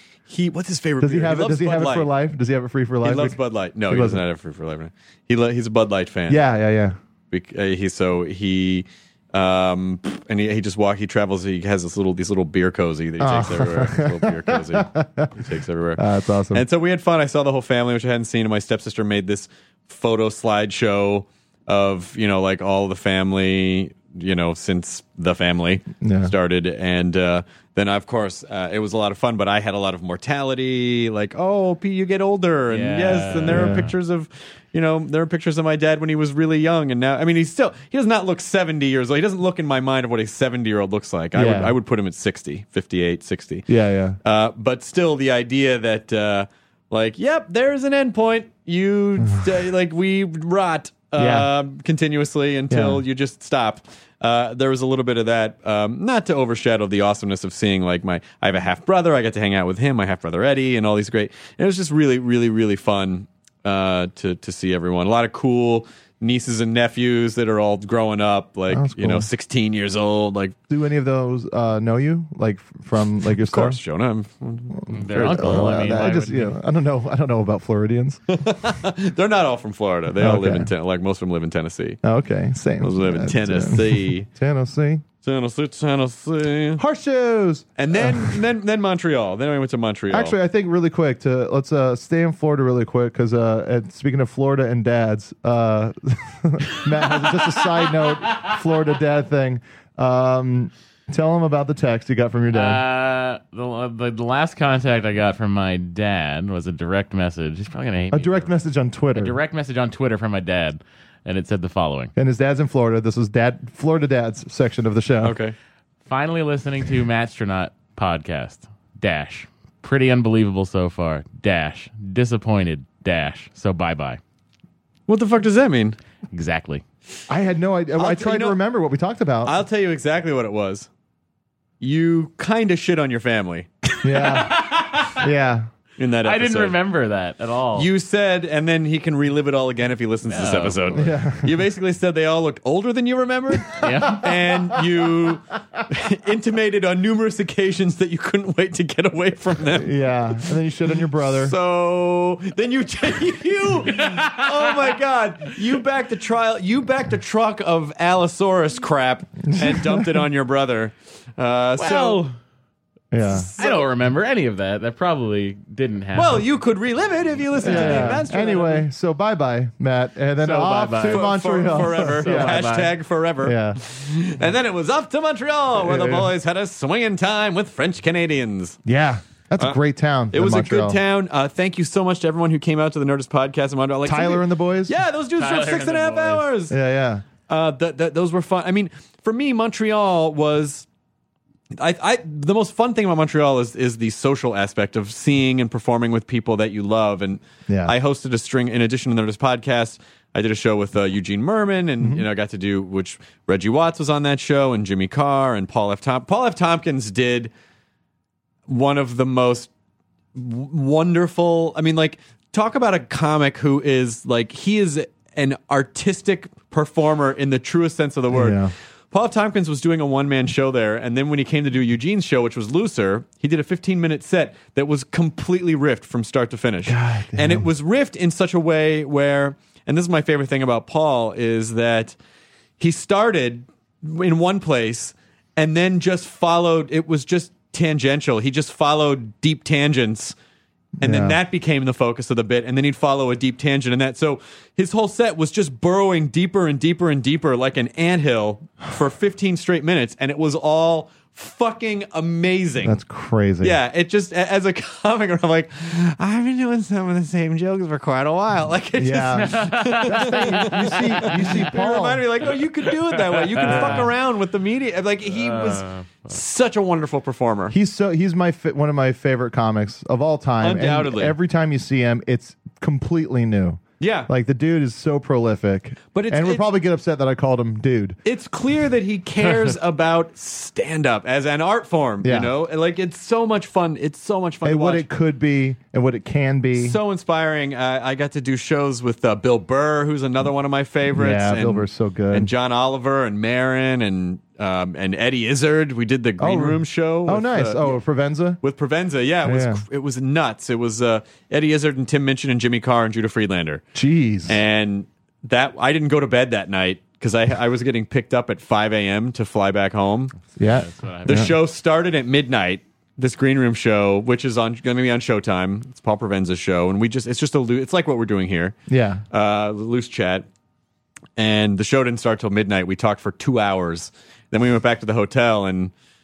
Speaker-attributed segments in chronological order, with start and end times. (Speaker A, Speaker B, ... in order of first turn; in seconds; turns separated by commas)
Speaker A: 0.3-2.1, Speaker B: 1.0-4.2, Speaker A: 3.0-6.4, Speaker B: 6.3-7.0, Speaker A: 7.3-43.7, Speaker B: 13.2-15.3, Speaker B: 16.0-16.6, Speaker B: 26.0-26.3, Speaker C: 32.7-33.9, Speaker B: 33.5-33.9, Speaker B: 41.3-41.7, Speaker B: 43.7-44.2, Speaker A: 44.2-70.5, Speaker B: 49.2-49.5, Speaker B: 51.2-51.5, Speaker B: 52.7-53.0, Speaker B: 68.7-69.3, Speaker B: 70.7-73.8, Speaker A: 73.4-75.5, Speaker C: 74.9-76.5, Speaker B: 75.0-78.2, Speaker A: 78.3-82.0, Speaker B: 80.2-80.7, Speaker B: 82.0-85.0, Speaker A: 82.8-84.3, Speaker A: 85.2-86.8, Speaker B: 86.8-88.4, Speaker A: 87.8-90.4, Speaker B: 90.1-102.8, Speaker C: 102.5-108.5, Speaker B: 108.1-109.4, Speaker C: 109.1-112.1, Speaker B: 112.2-115.4, Speaker A: 115.2-115.5, Speaker C: 116.0-124.2, Speaker A: 125.1-126.0, Speaker C: 126.3-126.8, Speaker B: 127.3-129.6, Speaker A: 128.0-128.6, Speaker A: 129.4-130.9, Speaker A: 131.8-133.7, Speaker B: 134.0-135.7, Speaker C: 134.2-135.1, Speaker A: 136.0-136.8, Speaker C: 136.2-137.9, Speaker A: 137.8-149.9, Speaker C: 140.3-141.0, Speaker B: 140.9-141.5, Speaker C: 143.8-144.3, Speaker B: 149.8-151.5, Speaker A: 151.2-162.3, Speaker C: 153.9-154.8, Speaker B: 159.5-160.2, Speaker C: 161.8-162.3, Speaker B: 163.1-163.5, Speaker A: 163.3-163.9, Speaker C: 163.6-166.5, Speaker A: 166.2-168.9, Speaker C: 167.6-168.2, Speaker B: 167.6-172.7, Speaker C: 170.4-172.9, Speaker A: 171.1-178.8, Speaker B: 173.4-173.8, Speaker B: 175.8-176.3, Speaker B: 178.9-181.0, Speaker A: 180.3-186.7, Speaker B: 184.1-185.0, Speaker C: 185.4-186.5, Speaker B: 186.7-187.2, Speaker A: 187.5-190.9, Speaker A: 191.8-207.5, Speaker B: 197.7-197.9, Speaker A: 208.7-209.7, Speaker A: 210.3-232.2, Speaker B: 218.3-218.7, Speaker B: 226.8-227.7, Speaker A: 232.8-240.3, Speaker B: 241.0-241.4, Speaker A: 241.0-253.0, Speaker B: 252.8-253.8, Speaker A: 253.6-267.8, Speaker B: 259.0-262.2, Speaker C: 259.4-261.8, Speaker C: 263.1-264.1, Speaker B: 263.6-264.1, Speaker C: 265.3-266.4, Speaker B: 267.7-278.2, Speaker A: 270.6-271.4, Speaker A: 274.0-274.3, Speaker A: 276.1-276.7, Speaker A: 278.2-285.1, Speaker B: 282.2-282.5, Speaker B: 284.6-287.0, Speaker A: 286.8-298.0, Speaker B: 291.1-292.5, Speaker B: 296.4-298.6, Speaker A: 298.6-303.8, Speaker B: 299.4-299.8, Speaker B: 303.9-304.6, Speaker A: 304.5-310.3, Speaker B: 310.6-311.5, Speaker C: 310.8-311.5, Speaker A: 311.2-318.8, Speaker B: 318.9-319.2, Speaker A: 319.3-320.4, Speaker A: 321.4-325.9